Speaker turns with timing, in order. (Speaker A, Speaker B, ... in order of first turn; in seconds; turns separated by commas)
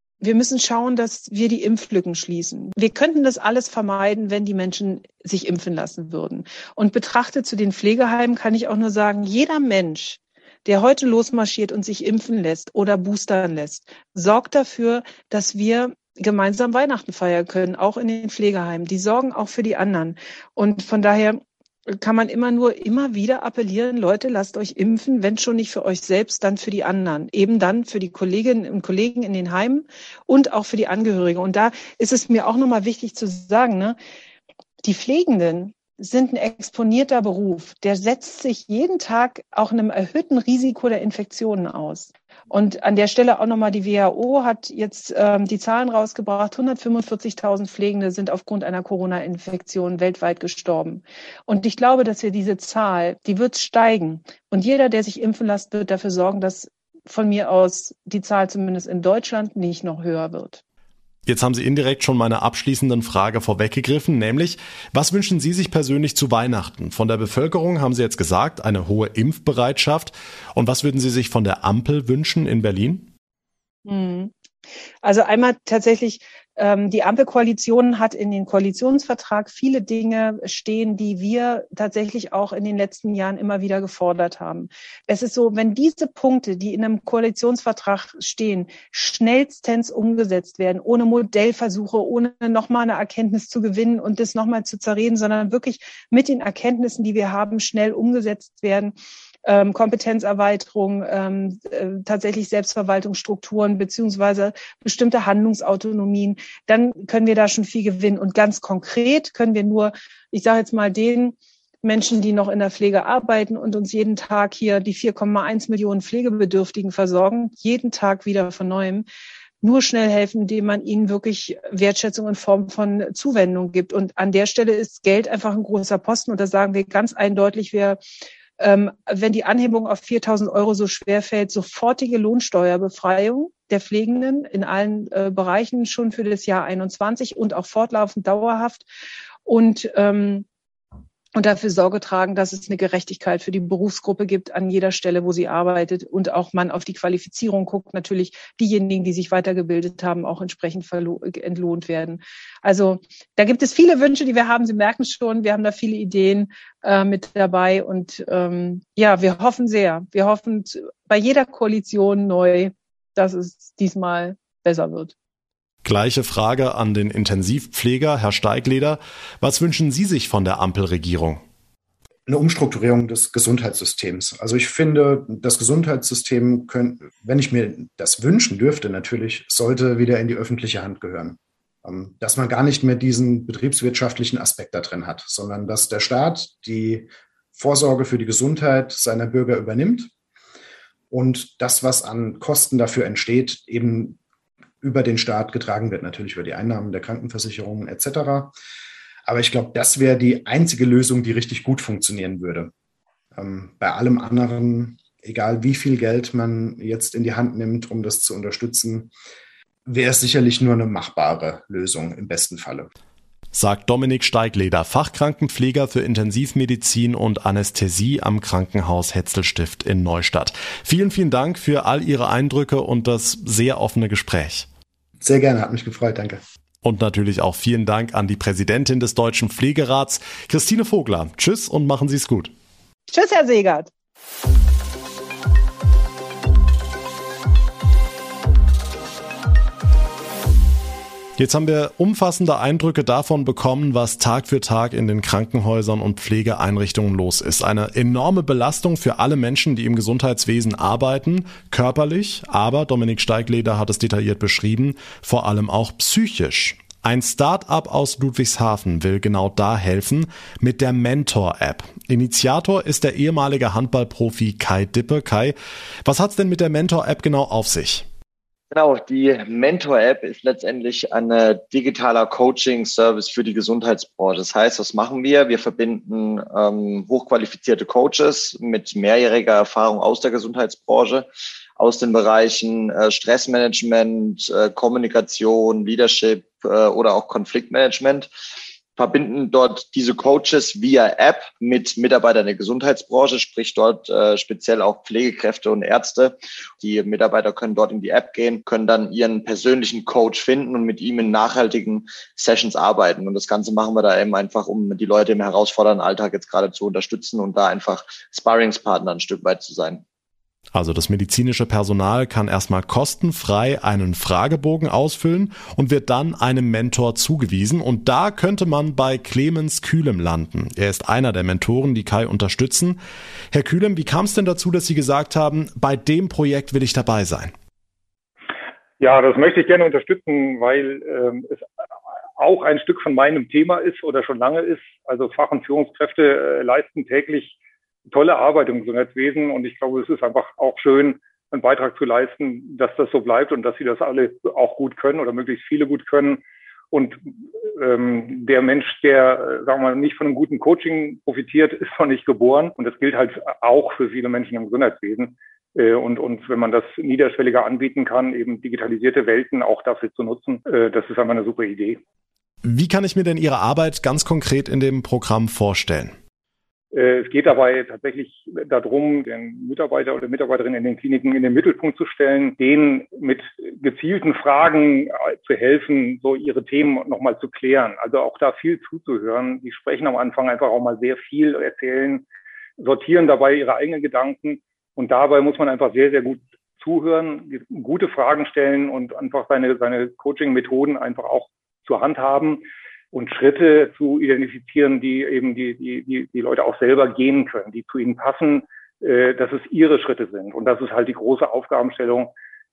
Speaker A: 0.2-34.0, Speaker A: 34.8-60.6, Speaker B: 61.2-73.1, Speaker A: 73.8-74.3, Speaker A: 75.0-98.9, Speaker A: 99.4-119.0, Speaker A: 119.6-128.0, Speaker A: 128.6-138.8, Speaker A: 139.4-140.4, Speaker A: 141.3-165.1, Speaker B: 165.8-171.4, Speaker C: 172.3-190.1, Speaker C: 191.1-194.2, Speaker C: 194.8-198.5, Speaker C: 199.2-202.7, Speaker C: 203.3-209.1, Speaker C: 209.8-212.9, Speaker B: 213.5-224.7, Speaker C: 225.2-226.4, Speaker B: 226.8-232.5, Speaker A: 233.1-233.9, Speaker B: 241.4-268.1, Speaker D: 268.7-281.2, Speaker D: 281.8-288.3, Speaker D: 288.9-310.0, Speaker B: 310.7-323.0, Speaker B: 323.5-327.5, Speaker E: 329.0-331.6, Speaker E: 332.4-337.6, Speaker E: 338.1-347.2, Speaker E: 347.8-362.0, Speaker B: 362.6-366.1, Speaker E: 366.9-382.2, Speaker E: 382.8-402.3